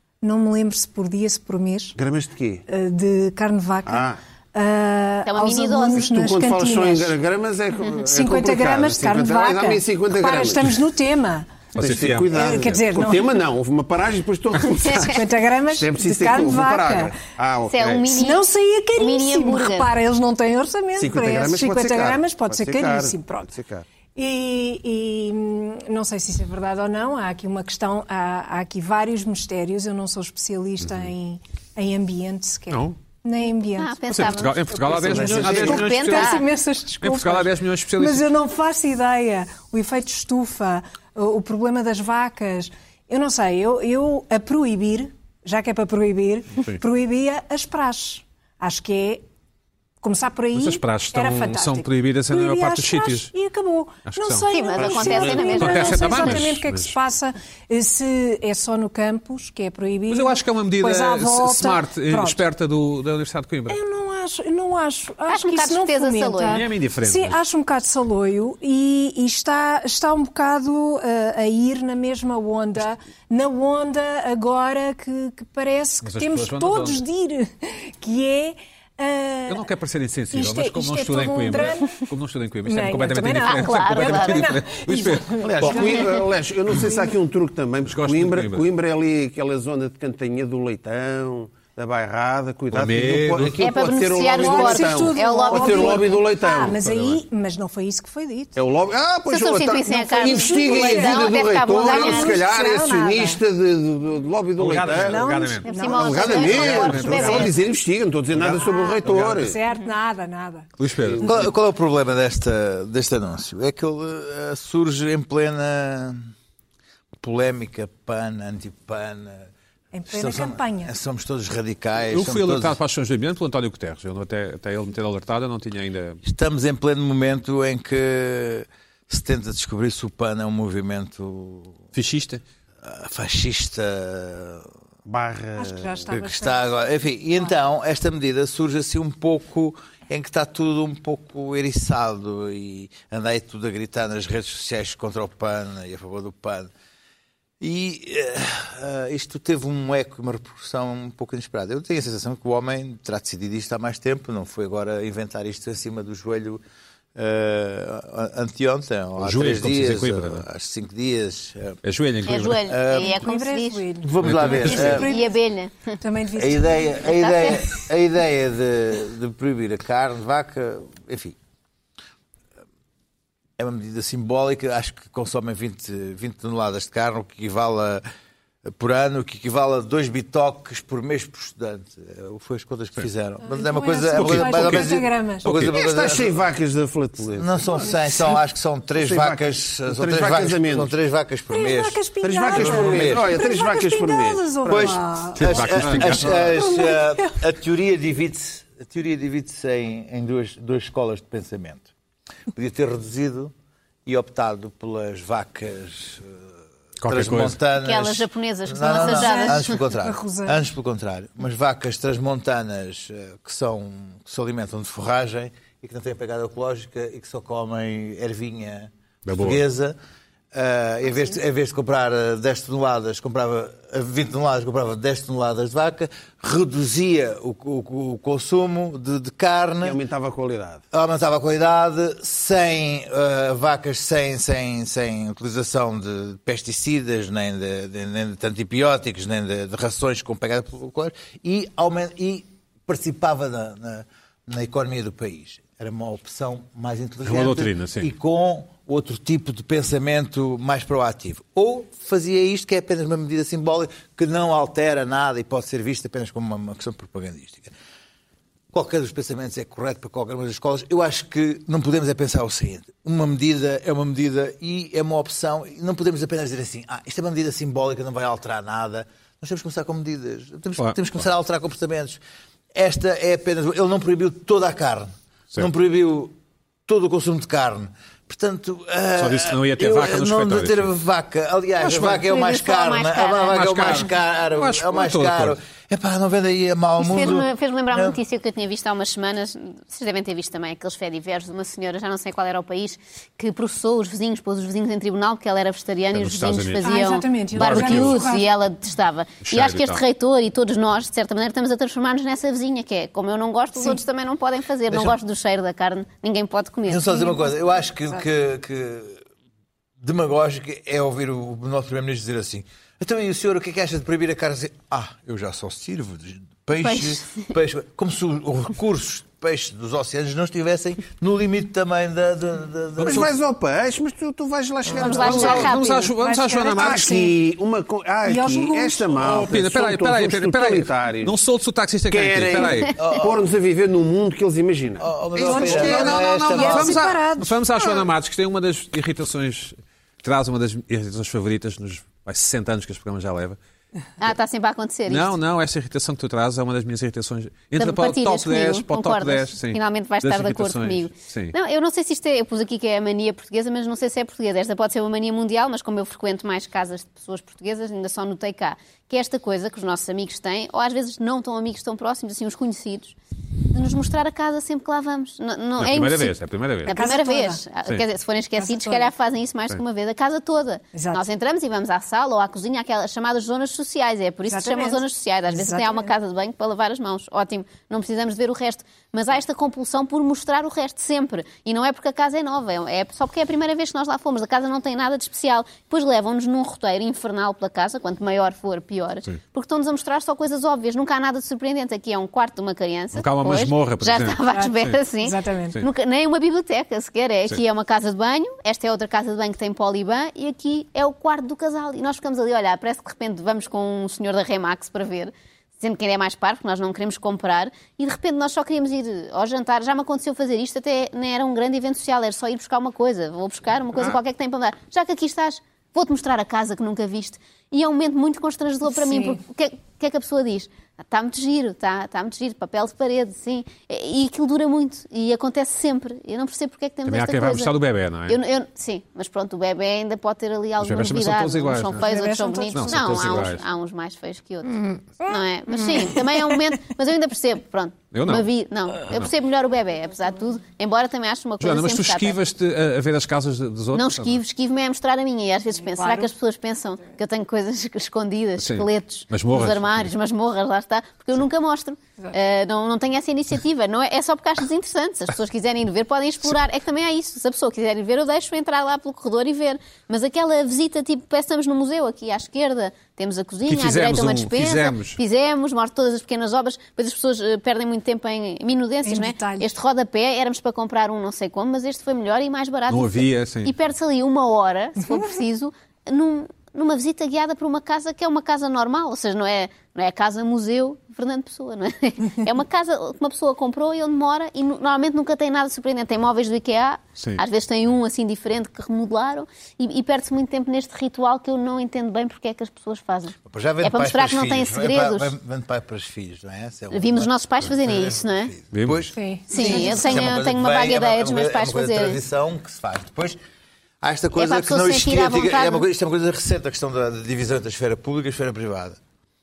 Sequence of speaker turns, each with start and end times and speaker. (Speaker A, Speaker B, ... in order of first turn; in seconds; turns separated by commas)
Speaker A: 0.2-2.0, Speaker B: 1.9-2.6, Speaker A: 2.7-7.2, Speaker B: 3.9-4.2, Speaker C: 5.2-6.1, Speaker B: 5.9-10.8, Speaker A: 8.1-11.5, Speaker D: 11.8-12.8, Speaker B: 11.8-18.1, Speaker A: 12.3-13.2, Speaker A: 15.0-17.1, Speaker C: 17.7-19.9, Speaker A: 18.1-23.5, Speaker B: 20.9-23.9, Speaker A: 24.1-34.4, Speaker D: 32.7-33.0, Speaker C: 33.8-36.5, Speaker D: 34.1-36.4, Speaker B: 34.8-36.0, Speaker A: 35.2-49.2, Speaker D: 37.0-38.2, Speaker A: 50.0-62.4, Speaker D: 50.5-53.3, Speaker D: 54.1-54.5, Speaker C: 54.5-56.4, Speaker B: 54.8-55.7, Speaker D: 55.5-56.9, Speaker D: 60.1-63.8, Speaker A: 63.7-79.7, Speaker C: 65.3-66.6, Speaker D: 66.5-67.4, Speaker D: 76.0-77.0, Speaker D: 79.5-85.9, Speaker A: 80.3-82.0, Speaker A: 82.7-87.2, Speaker C: 83.5-84.5, Speaker B: 85.4-96.8, Speaker D: 87.9-88.6, Speaker D: 92.7-93.6, Speaker C: 93.6-96.1, Speaker A: 94.3-98.6, Speaker D: 96.8-97.2, Speaker B: 98.5-105.2, Speaker C: 99.3-102.4, Speaker A: 100.2-103.4, Speaker D: 104.6-105.7, Speaker A: 105.0-107.4, Speaker C: 105.6-107.6, Speaker B: 105.8-109.6, Speaker D: 106.2-107.5, Speaker D: 108.3-109.4, Speaker A: 108.5-110.7, Speaker D: 110.8-111.5, Speaker B: 111.0-111.3, Speaker E: 111.2-116.3, Speaker E: 117.2-119.5, Speaker A: 119.9-120.9, Speaker E: 120.1-122.8, Speaker D: 122.1-126.2, Speaker E: 126.2-131.8, Speaker D: 131.9-132.4, Speaker E: 132.8-134.7, Speaker B: 135.0-136.1, Speaker A: 135.6-136.8, Speaker E: 136.1-146.7, Speaker E: 147.6-156.6, Speaker E: 157.2-161.8, Speaker D: 159.2-160.4, Speaker D: 161.8-162.7, Speaker C: 162.2-163.9, Speaker E: 162.5-163.2, Speaker A: 163.0-165.4, Speaker E: 164.0-165.1, Speaker D: 164.2-165.0, Speaker C: 164.8-165.8, Speaker A: 166.0-166.9, Speaker E: 166.4-171.4, Speaker C: 167.0-167.7, Speaker E: 173.6-178.0, Speaker E: 178.7-186.4, Speaker A: 183.4-185.5, Speaker D: 184.2-184.9, Speaker D: 185.4-185.8, Speaker B: 185.6-187.9, Speaker E: 187.4-192.0, Speaker B: 188.9-190.9, Speaker A: 191.5-197.4, Speaker B: 192.2-195.0, Speaker E: 192.5-193.3, Speaker E: 194.7-201.9, Speaker D: 195.4-196.3, Speaker B: 195.9-196.2, Speaker E: 202.5-203.5, Speaker E: 204.1-206.4, Speaker D: 207.0-207.6, Speaker E: 207.0-220.0, Speaker C: 207.8-209.8, Speaker A: 208.8-210.6, Speaker D: 219.2-219.6, Speaker E: 220.5-230.0, Speaker B: 229.8-230.8, Speaker E: 230.9-257.7, Speaker D: 247.2-248.1, Speaker E: 258.7-272.2, Speaker D: 270.8-271.0, Speaker E: 272.8-276.3, Speaker E: 276.9-288.2, Speaker D: 279.2-280.9, Speaker C: 281.9-284.0, Speaker D: 283.5-285.6, Speaker C: 287.0-307.4, Speaker D: 296.1-297.0, Speaker A: 296.8-298.5, Speaker D: 297.6-298.2, Speaker D: 299.4-300.0, Speaker E: 304.9-305.2, Speaker E: 306.9-309.2, Speaker E: 310.0-323.3, Speaker C: 316.8-317.4, Speaker D: 323.0-323.3, Speaker B: 323.0-325.8, Speaker E: 324.9-325.3, Speaker C: 325.0-326.1, Speaker D: 325.0-327.1, Speaker A: 326.2-327.4, Speaker B: 326.8-331.4, Speaker A: 328.2-329.4, Speaker D: 329.2-332.9, Speaker B: 332.1-336.2, Speaker C: 332.6-333.1, Speaker E: 333.0-333.4, Speaker E: 335.0-337.0, Speaker A: 335.4-337.6, Speaker D: 335.6-343.6, Speaker C: 344.2-345.3, Speaker D: 345.1-351.5, Speaker C: 347.8-363.1, Speaker C: 363.7-427.7, Speaker D: 365.8-367.0, Speaker A: 366.9-367.6, Speaker A: 368.6-369.1, Speaker A: 370.9-371.2, Speaker A: 374.5-376.1, Speaker D: 393.1-394.9, Speaker A: 394.5-395.8, Speaker A: 418.9-419.4, Speaker D: 427.1-428.4, Speaker C: 428.3-442.4, Speaker D: 430.8-432.1, Speaker A: 432.0-433.5, Speaker D: 432.7-433.6, Speaker D: 438.1-439.3, Speaker D: 441.6-444.4, Speaker C: 443.9-495.3, Speaker A: 445.9-446.3, Speaker D: 448.6-450.1, Speaker D: 463.7-465.2, Speaker A: 469.0-469.7, Speaker D: 472.9-473.7, Speaker D: 487.2-487.4, Speaker E: 493.4-503.4, Speaker C: 496.9-498.5, Speaker D: 498.7-499.1, Speaker A: 499.1-500.2, Speaker C: 499.5-502.2, Speaker E: 504.0-509.0, Speaker C: 504.4-505.8